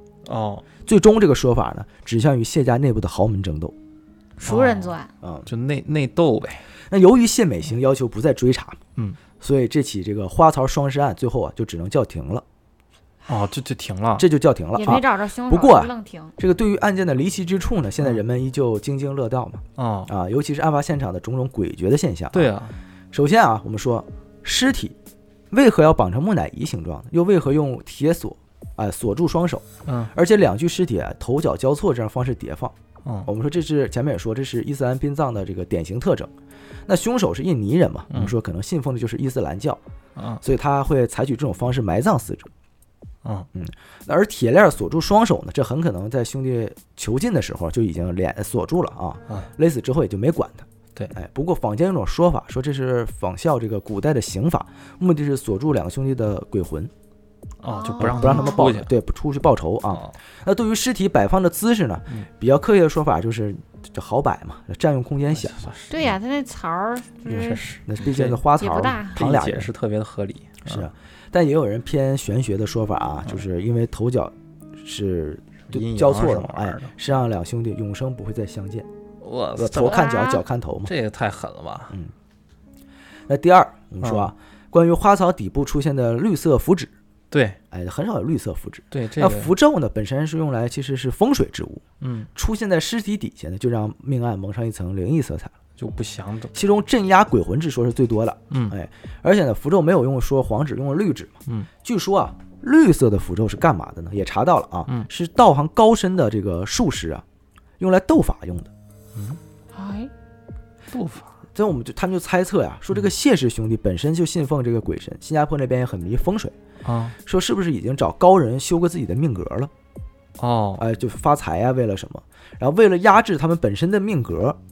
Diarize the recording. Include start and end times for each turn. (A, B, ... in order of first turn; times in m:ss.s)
0:00.2-0:00.6 A
0:00.8-0:03.7 B
0:04.4-0:05.1 C
0:04.4-0:05.0 A
0:05.2-0:05.5 B
0:05.5-0:06.6 A
0:06.9-0:08.8 B
0:09.4-0:12.4 B
0:13.3-0:14.3 A
0:14.2-0:22.5 B
0:14.7-0:16.4 C
0:19.8-0:20.1 A
0:22.3-0:22.8 A
0:23.1-0:25.0 B
0:25.5-0:36.3 B
0:29.9-0:30.1 A
0:36.9-0:39.8 B
0:40.2-0:40.4 A
0:40.4-0:42.5 B
0:43.6-0:56.9 B
0:57.6-0:58.9 A
0:57.6-0:58.7 C
0:58.0-1:05.7 B
1:05.3-1:06.2 A
1:05.9-1:07.7 C
1:07.3-1:08.4 A
1:07.8-1:09.7 B
1:08.6-1:09.2 C
1:09.1-1:10.9 A
1:10.6-1:18.9 B
1:15.7-1:17.0 A
1:19.2-1:20.1 A
1:19.6-1:20.9 B
1:19.8-1:20.4 C
1:20.8-1:21.9 A
1:23.3-1:26.9 B
1:24.0-1:24.3 A
1:27.3-1:27.6 A
1:27.7-1:31.8 B
1:28.9-1:29.5 A
1:32.0-1:32.3 A
1:32.3-1:35.5 B
1:35.8-1:36.6 A
1:36.5-1:47.2 B
1:47.8-1:48.7 B
1:49.7-1:50.1 C
1:50.9-1:51.3 A
1:51.6-1:56.5 B
1:56.8-1:57.1 A
1:57.2-1:59.7 B
2:00.4-2:00.8 A
2:00.8-2:04.6 B